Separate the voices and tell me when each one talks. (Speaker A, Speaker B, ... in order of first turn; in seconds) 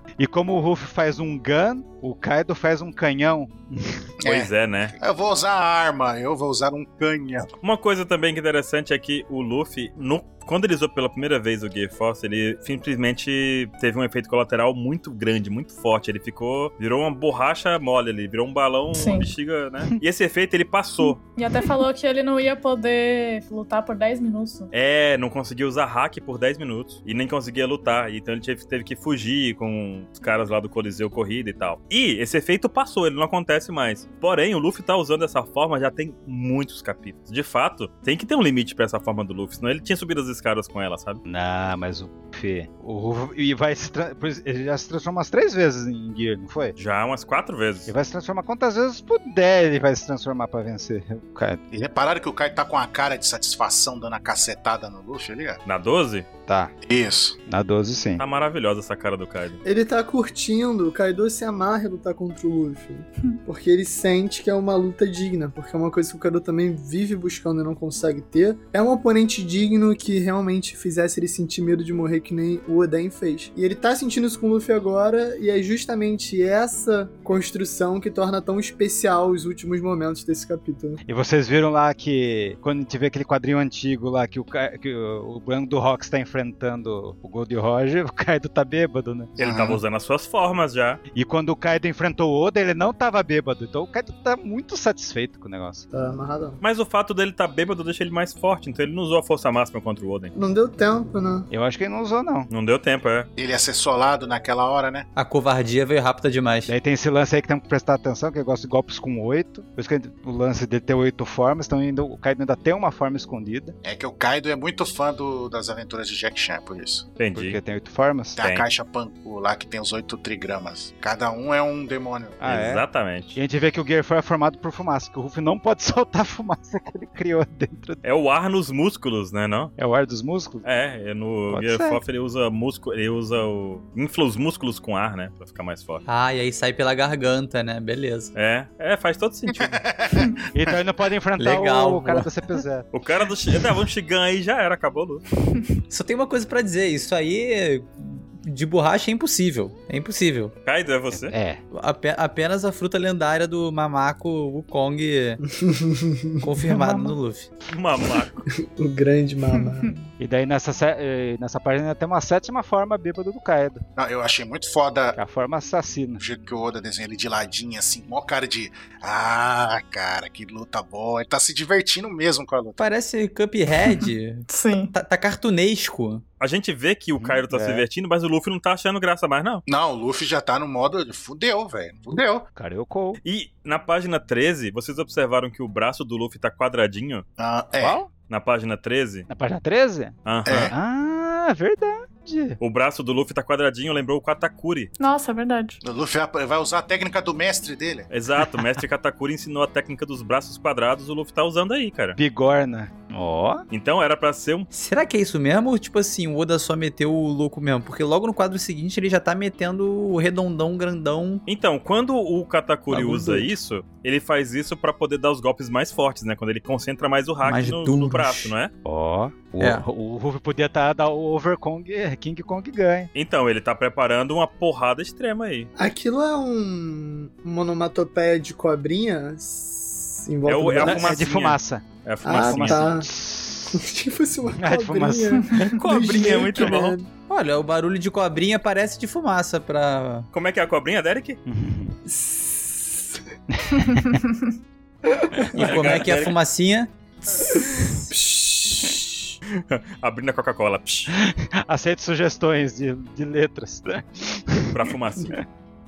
Speaker A: 0.2-4.0, 41.2-46.7, 47.9-51.6, 56.5-56.7, 57.5-58.2, 81.1-89.3, 91.1-95.8, 101.5-102.5, 106.7-113.7, 117.3-118.4, 122.4-128.0, 129.8-130.6, 131.5-132.0, 140.5-142.9, 151.1-151.6, 156.6-157.2, 160.2-163.8, 165.2-166.2, 177.2-177.8, 182.6-183.2, 187.8-188.1, 189.3-192.6, 202.2-203.6, 218.8-223.1, 230.8-233.8, 234.6-235.8, 241.5-241.9, 243.5-244.2, 251.1-255.4
Speaker B: 4.2-7.5, 51.7-55.6, 56.8-57.4, 89.4-89.8, 103.4-105.0, 113.8-117.1, 118.4-122.4, 139.5-140.4, 163.9-165.2, 166.2-172.8, 179.7-182.5, 187.4-188.0, 190.4-190.7, 195.8-198.1
Speaker C: 4.2-4.9, 7.6-21.2, 24.7-41.2, 46.8-47.9, 55.6-56.2, 58.2-59.6, 89.4-91.0, 96.6-100.3, 102.5-103.3, 117.2-117.6, 122.5-123.3, 128.0-129.7, 130.6-136.0, 138.3-139.8, 142.9-145.2, 150.7-151.3, 157.7-158.4, 176.4-179.6, 183.2-187.2, 188.3-189.3, 190.2-190.7, 192.6-194.9, 198.1-202.2, 203.7-204.7, 211.5-218.7, 223.1-225.7, 230.4-232.9, 235.8-236.9, 240.3-241.4, 245.5-246.3, 249.5-251.1, 254.7-255.4
Speaker D: 18.9-19.3, 21.0-24.7, 173.9-174.9, 195.0-195.8, 243.9-244.5
Speaker E: 59.6-81.0, 95.9-96.6, 100.3-101.5, 155.5-156.5, 158.5-159.9, 225.8-231.1, 232.2-233.1, 233.7-237.1, 242.1-243.2, 245.1-245.4, 247.3-249.3
Speaker F: 105.2-106.7, 136.1-138.3, 141.4-142.3, 145.9-150.5, 151.7-155.4, 156.4-157.5, 172.8-176.2, 204.7-211.4, 212.9-213.5, 217.4-218.5, 219.6-219.8, 237.3-240.3, 245.5-246.9